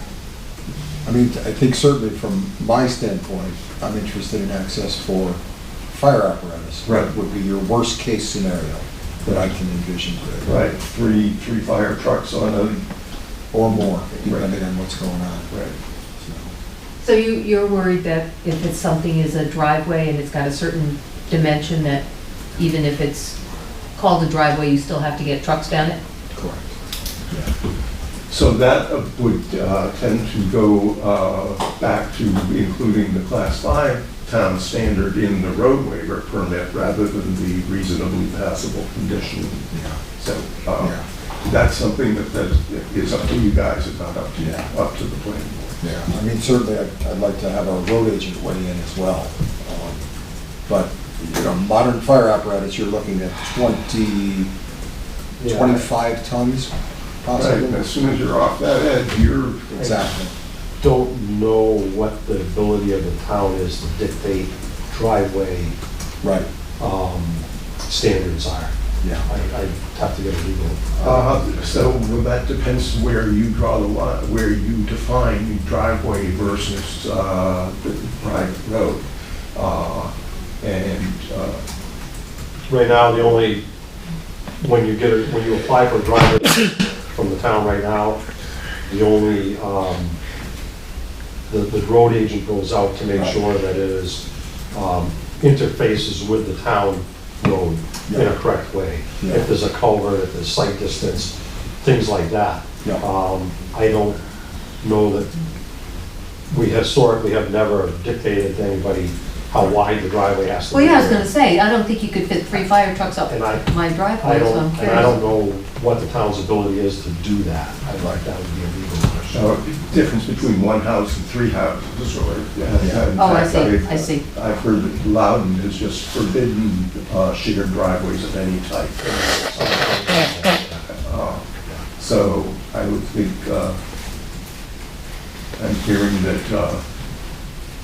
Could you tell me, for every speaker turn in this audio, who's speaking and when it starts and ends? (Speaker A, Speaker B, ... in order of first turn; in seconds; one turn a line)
Speaker A: 1.1-5.4
Speaker A: 5.9-10.6
Speaker B: 6.8-7.1
Speaker B: 9.2-9.5
Speaker B: 10.4-12.9
Speaker A: 13.5-15.5
Speaker B: 13.7-14.5
Speaker B: 15.5-15.8
Speaker A: 16.2-16.5
Speaker C: 17.0-22.0
Speaker C: 22.6-23.4
Speaker C: 24.0-26.0
Speaker A: 26.3-26.7
Speaker B: 28.3-45.8
Speaker A: 39.7-40.0
Speaker A: 40.8-41.1
Speaker A: 44.4-44.7
Speaker A: 45.8-50.0
Speaker A: 50.7-54.5
Speaker D: 55.4-55.9
Speaker A: 55.4-56.7
Speaker A: 57.2-57.8
Speaker B: 57.3-59.9
Speaker A: 59.8-60.3
Speaker D: 60.8-65.8
Speaker A: 66.2-66.5
Speaker D: 66.8-68.7
Speaker D: 69.3-71.4
Speaker B: 71.0-81.6
Speaker D: 82.7-83.6
Speaker D: 84.6-86.6
Speaker D: 87.1-88.2
Speaker D: 88.9-90.2
Speaker D: 91.5-104.2
Speaker A: 98.1-98.3
Speaker A: 99.2-99.5
Speaker D: 104.8-105.3
Speaker D: 106.5-111.3
Speaker C: 110.7-115.2
Speaker D: 113.3-113.7
Speaker D: 114.2-119.5
Speaker B: 119.3-129.1
Speaker A: 122.8-123.1
Speaker C: 123.2-124.2
Speaker D: 129.0-130.8
Speaker B: 130.9-133.8
Speaker B: 135.6-136.8